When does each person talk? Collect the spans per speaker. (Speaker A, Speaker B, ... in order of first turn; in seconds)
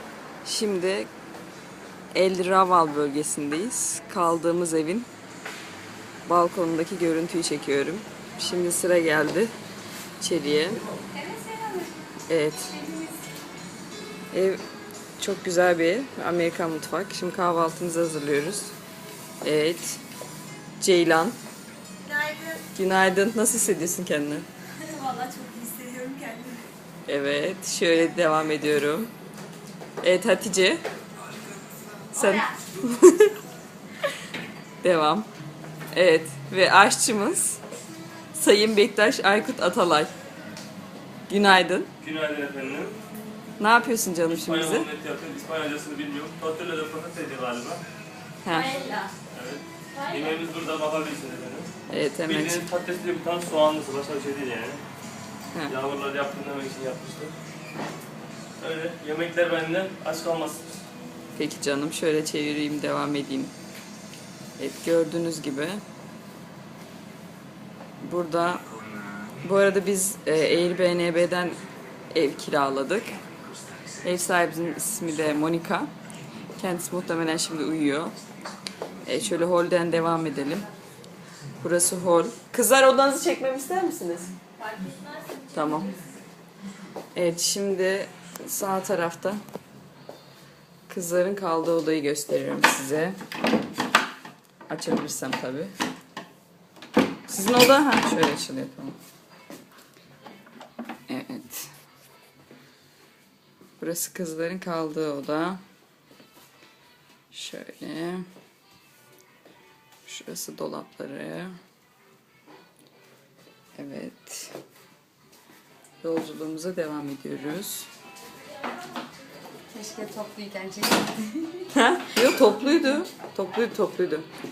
Speaker A: 0.4-1.1, 2.1-5.1, 6.2-9.5, 10.2-10.9, 12.3-12.8, 14.3-14.6, 15.2-18.7, 19.4-20.0, 20.8-21.4, 22.7-24.5, 27.1-29.1, 30.0-30.8, 32.1-33.3, 34.8-35.3, 35.9-37.6, 38.3-40.1, 41.3-41.9, 43.6-44.9, 48.4-48.7, 51.9-52.6, 61.4-63.5, 64.6-65.8, 68.0-68.6, 69.4-71.6, 72.1-73.2, 74.0-75.9, 76.6-78.1, 79.0-80.7, 81.6-84.3, 85.5-85.9, 87.1-89.4, 90.9-93.2, 94.7-95.7, 97.3-99.0, 101.1-101.7, 103.8-105.6, 107.3-108.2, 110.0-111.5, 113.8-114.6, 116.0-117.9, 121.7-124.3
Speaker B: 11.2-11.9, 22.1-22.4, 24.9-26.6, 48.5-49.1, 84.6-85.8, 119.7-121.2
Speaker C: 42.0-43.0, 44.3-47.8, 49.3-51.7, 52.2-54.8, 55.7-57.3, 58.6-60.6